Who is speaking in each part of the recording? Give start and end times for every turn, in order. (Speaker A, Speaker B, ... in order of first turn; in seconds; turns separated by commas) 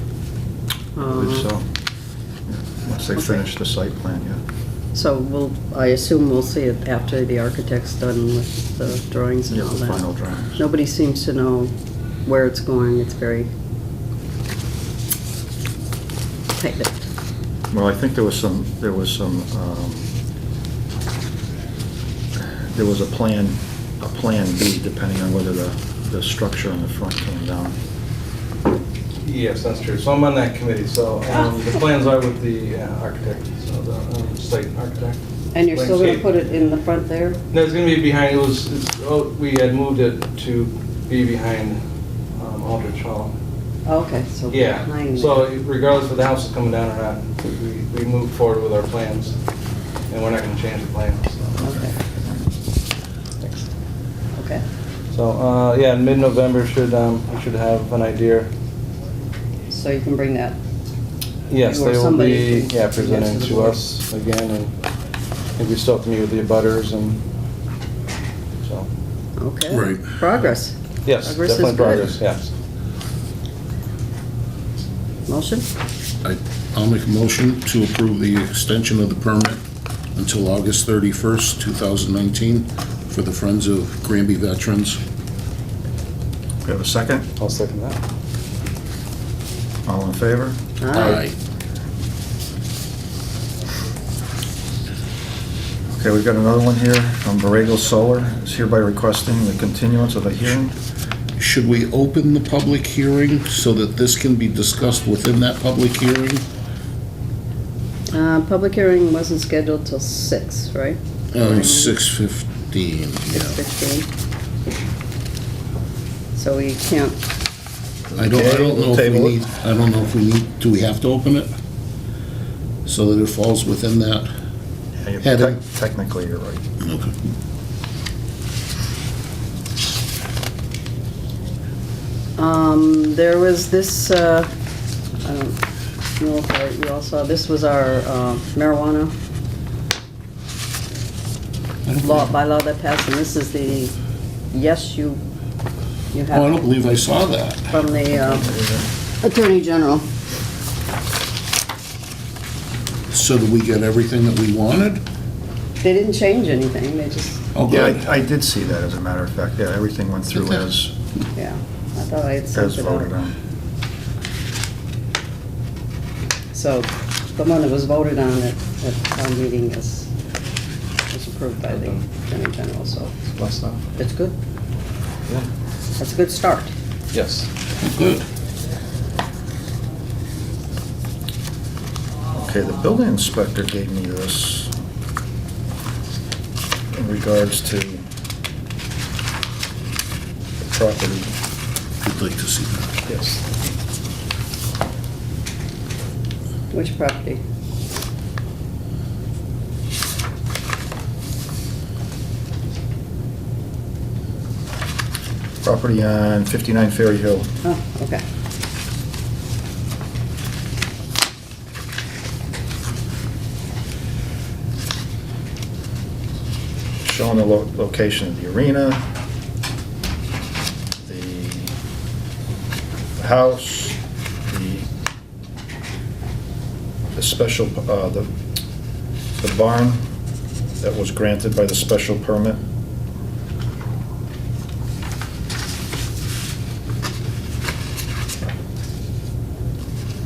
Speaker A: 0.9-1.5, Speaker B: 1.0-1.6, Speaker B: 2.5-4.4, Speaker A: 3.1-3.4, Speaker A: 4.9-10.1, Speaker B: 9.5-10.6, Speaker A: 10.6-11.7, Speaker A: 12.2-13.5, Speaker A: 16.6-17.1, Speaker B: 17.7-20.1, Speaker B: 22.4-27.8, Speaker C: 29.2-35.2, Speaker A: 35.5-37.4, Speaker C: 35.7-36.2, Speaker C: 37.5-41.8, Speaker C: 42.3-43.3, Speaker A: 43.9-45.5, Speaker C: 44.5-49.3, Speaker C: 50.1-51.6, Speaker B: 51.6-52.3, Speaker A: 51.6-52.0, Speaker A: 54.4-54.6, Speaker C: 55.1-58.5, Speaker A: 59.7-60.6, Speaker C: 61.5-64.7, Speaker A: 61.6-63.8, Speaker C: 65.6-67.2, Speaker C: 68.6-68.9, Speaker A: 69.4-72.1, Speaker D: 69.7-70.1, Speaker C: 71.0-72.5, Speaker A: 75.3-75.7, Speaker D: 76.2-79.6, Speaker D: 80.2-85.0, Speaker B: 86.6-87.3, Speaker C: 87.4-88.0, Speaker B: 89.8-91.1, Speaker A: 90.8-91.2, Speaker D: 90.9-91.3, Speaker B: 95.9-100.7, Speaker D: 101.4-106.5, Speaker A: 108.1-112.0, Speaker D: 111.3-113.6, Speaker A: 113.3-114.1, Speaker A: 116.3-117.2, Speaker B: 118.1-119.3, Speaker D: 118.2-121.5, Speaker D: 122.8-124.3, Speaker B: 125.0-126.6, Speaker D: 125.2-125.6, Speaker D: 126.8-127.1, Speaker A: 132.4-134.5, Speaker A: 135.2-135.6, Speaker A: 136.2-139.1, Speaker D: 141.8-142.3, Speaker A: 142.0-143.9, Speaker A: 144.5-145.2, Speaker A: 146.1-146.7, Speaker D: 146.3-147.7, Speaker A: 147.7-148.5, Speaker B: 148.1-148.9, Speaker A: 149.2-150.1, Speaker D: 153.1-155.0, Speaker A: 155.8-157.4, Speaker D: 157.5-158.0, Speaker B: 157.7-160.9, Speaker A: 161.3-163.1, Speaker B: 162.5-163.3, Speaker A: 166.5-170.1, Speaker A: 171.1-173.2, Speaker C: 171.7-172.0, Speaker C: 173.3-173.8, Speaker A: 173.9-174.3, Speaker A: 176.0-176.7, Speaker C: 177.1-177.5, Speaker D: 177.8-178.3, Speaker B: 182.3-184.7, Speaker B: 186.9-188.0, Speaker B: 190.6-191.3, Speaker D: 192.0-193.1, Speaker A: 196.7-197.4, Speaker B: 205.6-207.5, Speaker A: 207.6-208.2, Speaker B: 217.0-219.0, Speaker B: 221.1-221.7, Speaker B: 223.2-224.0, Speaker B: 224.5-224.9, Speaker B: 227.1-228.3, Speaker B: 229.4-230.0, Speaker B: 230.8-232.6